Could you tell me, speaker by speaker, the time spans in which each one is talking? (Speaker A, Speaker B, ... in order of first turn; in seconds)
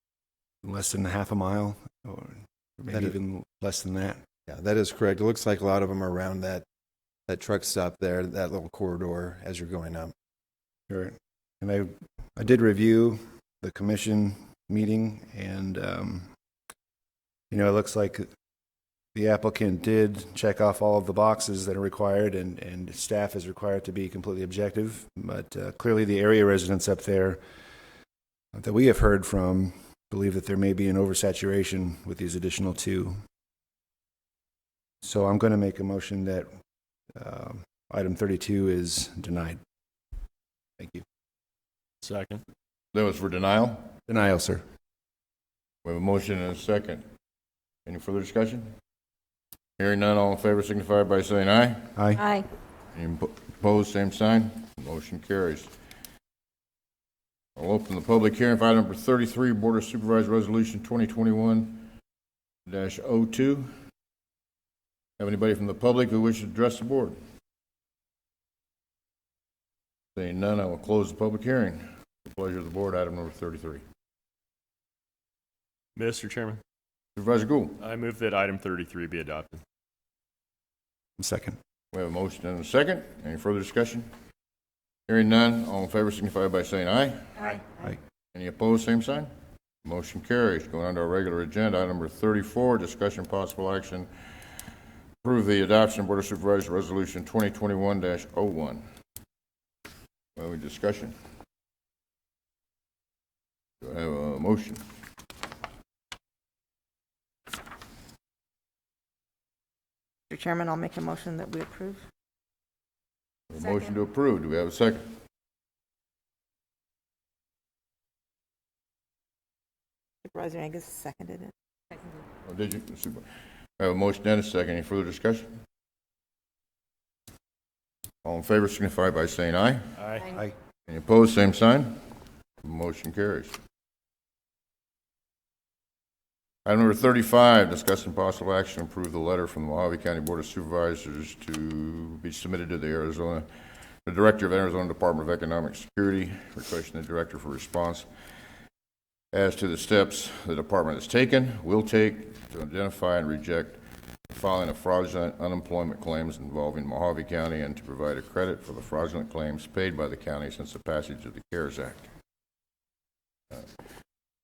Speaker A: 0.6-4.2, 10.9-16.3, 17.5-18.3, 19.1-27.4, 28.5-33.1, 35.0-36.5, 37.1-39.6, 40.8-41.0, 44.1-44.6, 52.0-52.2, 81.2-81.6
Speaker B: 4.5-6.6, 7.3-10.1
Speaker C: 42.0-42.4, 76.0-76.6, 77.8-79.6, 130.0-130.3
Speaker D: 42.9-43.9, 45.8-47.0, 47.9-48.7, 49.8-51.9, 52.9-55.7, 57.5-61.9, 62.6-63.7, 65.2-67.2, 70.2-73.8, 77.2-77.8, 81.9-84.1, 85.1-87.6, 88.3-89.3, 89.8-94.1, 95.2-98.8, 100.3-101.1, 103.8-104.8, 113.5-115.0, 122.5-123.2, 123.8-125.6, 128.2-129.8, 130.9-132.0, 132.6-133.6, 136.6-143.4, 144.0-148.1, 149.3-162.0
Speaker E: 110.3-112.0, 120.2-122.2